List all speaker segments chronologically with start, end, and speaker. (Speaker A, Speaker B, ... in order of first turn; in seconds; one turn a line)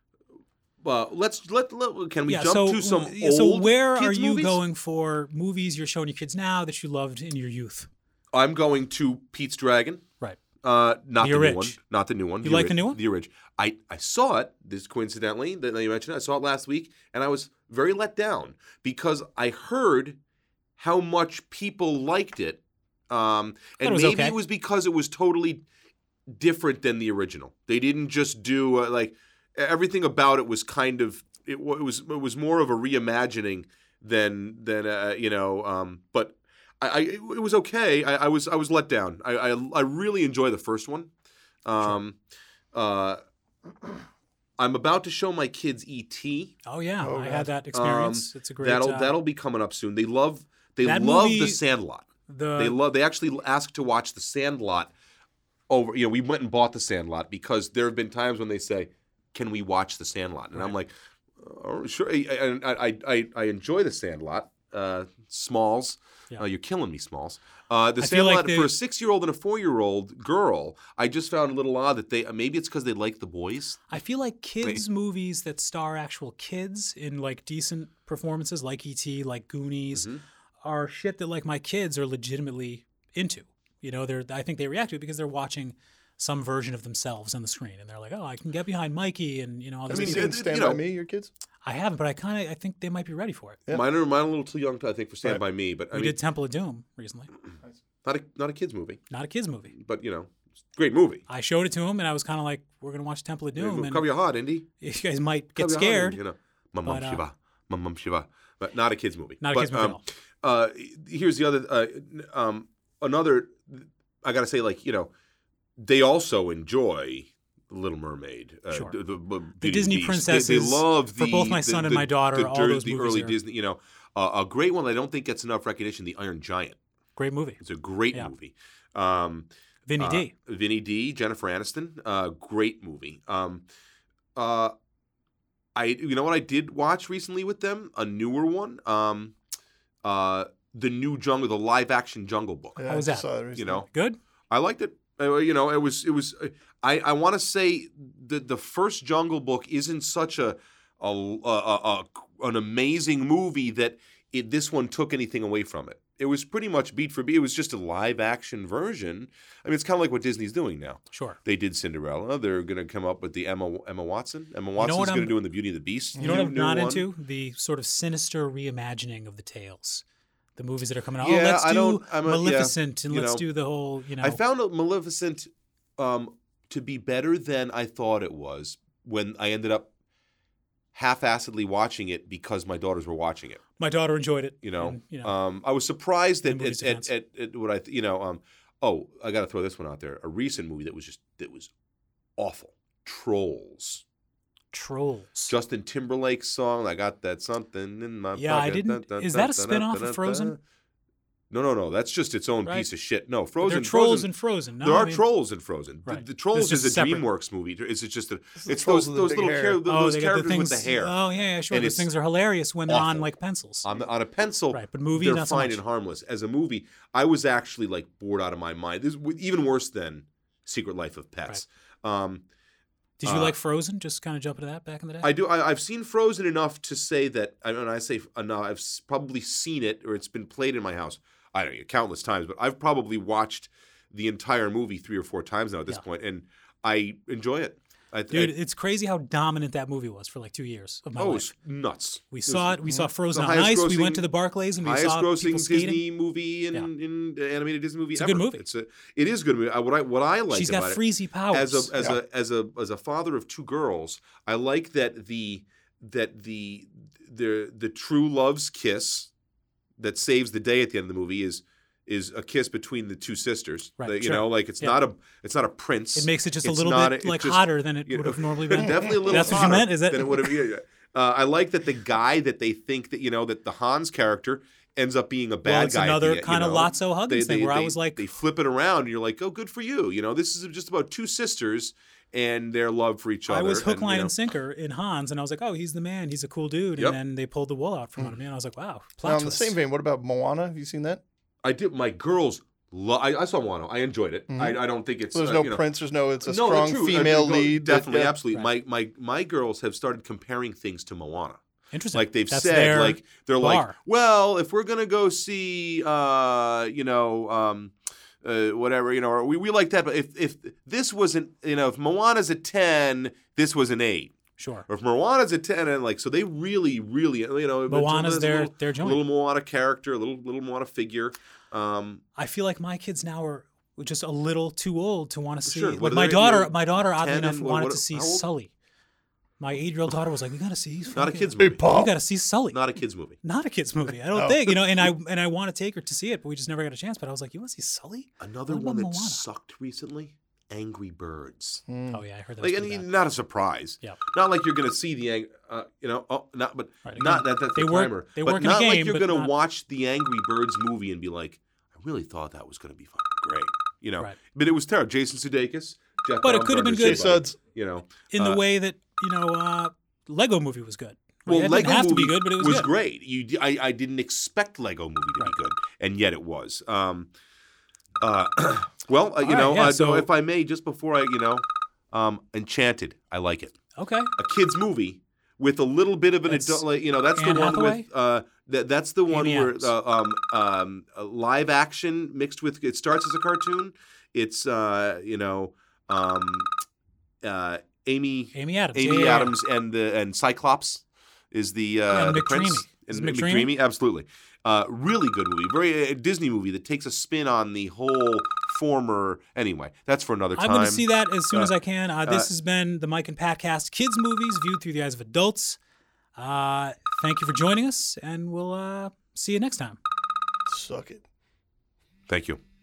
Speaker A: 0.8-4.6
Speaker B: 2.3-7.9
Speaker A: 8.3-10.1
Speaker A: 10.6-20.2
Speaker B: 11.2-11.8
Speaker B: 12.4-13.0
Speaker A: 20.8-25.6
Speaker B: 23.8-24.4
Speaker A: 26.3-41.1
Speaker A: 41.6-42.2
Speaker A: 42.7-43.2
Speaker A: 44.6-46.6
Speaker B: 46.6-49.2
Speaker C: 47.0-47.5
Speaker A: 47.7-54.9
Speaker B: 50.8-51.6
Speaker B: 52.3-52.8
Speaker A: 55.7-73.9
Speaker B: 68.0-68.7
Speaker B: 73.9-80.1
Speaker A: 79.9-80.2
Speaker B: 80.6-90.4
Speaker C: 89.9-91.3
Speaker A: 89.9-90.8
Speaker B: 91.6-93.6
Speaker A: 93.7-96.2
Speaker B: 95.9-97.3
Speaker A: 98.0-99.0
Speaker B: 99.1-99.7
Speaker A: 99.7-101.2
Speaker B: 101.3-104.0
Speaker A: 103.6-104.7
Speaker B: 104.8-106.2
Speaker A: 105.6-115.1
Speaker B: 106.8-107.2
Speaker B: 109.4-110.0
Speaker A: 115.8-126.8
Speaker B: 119.6-123.4
Speaker B: 127.2-127.6
Speaker A: 127.6-133.7
Speaker B: 129.9-130.3
Speaker A: 134.4-134.7
Speaker A: 135.8-139.4
Speaker A: 140.0-142.8
Speaker C: 142.8-143.8
Speaker B: 142.9-144.2
Speaker A: 143.6-143.9
Speaker A: 144.5-167.1
Speaker B: 161.1-161.4
Speaker B: 164.8-165.4
Speaker C: 166.2-166.5
Speaker B: 166.2-170.0
Speaker B: 170.6-174.4
Speaker A: 171.2-173.5
Speaker A: 174.2-179.9
Speaker A: 180.9-183.6
Speaker B: 183.8-185.4
Speaker A: 184.6-191.7
Speaker B: 186.4-187.1
Speaker A: 192.4-194.0
Speaker B: 194.7-195.6
Speaker A: 195.5-200.6
Speaker B: 198.4-200.6
Speaker A: 201.5-204.3
Speaker B: 202.6-202.9
Speaker B: 203.6-205.3
Speaker A: 204.8-211.2
Speaker B: 206.1-207.3
Speaker C: 208.6-209.8
Speaker B: 209.8-213.9
Speaker A: 211.7-212.1
Speaker A: 212.9-222.4
Speaker B: 214.7-215.8
Speaker B: 223.2-225.3
Speaker A: 223.2-223.6
Speaker A: 225.2-238.5
Speaker B: 238.3-241.5
Speaker A: 241.2-244.3
Speaker B: 242.3-246.0
Speaker A: 244.8-259.3
Speaker B: 248.2-248.6
Speaker B: 250.5-251.9
Speaker A: 260.0-284.4
Speaker B: 264.0-265.0
Speaker B: 266.1-270.6
Speaker B: 275.6-278.3
Speaker B: 283.5-289.8
Speaker C: 289.2-291.2
Speaker A: 291.6-295.9
Speaker C: 294.5-298.4
Speaker A: 296.4-301.6
Speaker B: 301.9-304.0
Speaker A: 302.1-314.4
Speaker B: 314.6-314.9
Speaker A: 314.9-322.2
Speaker B: 317.9-319.3
Speaker B: 322.4-328.7
Speaker A: 325.7-328.5
Speaker B: 329.6-332.8
Speaker A: 331.1-331.8
Speaker C: 331.6-332.1
Speaker A: 332.7-333.4
Speaker B: 333.4-339.4
Speaker C: 334.3-335.1
Speaker A: 338.4-341.8
Speaker C: 341.9-342.2
Speaker B: 342.1-343.1
Speaker A: 342.6-358.6
Speaker B: 347.1-349.5
Speaker B: 356.4-357.4
Speaker C: 357.0-357.6
Speaker B: 358.3-362.9
Speaker A: 361.5-367.3
Speaker A: 368.2-373.8
Speaker B: 369.4-370.3
Speaker B: 374.0-374.3
Speaker A: 374.4-386.7
Speaker B: 376.5-378.1
Speaker B: 379.3-379.9
Speaker A: 387.4-401.7
Speaker B: 388.5-389.6
Speaker B: 392.1-393.7
Speaker B: 400.6-405.8
Speaker A: 402.2-402.5
Speaker B: 406.4-410.0
Speaker C: 410.7-411.2
Speaker A: 412.3-412.6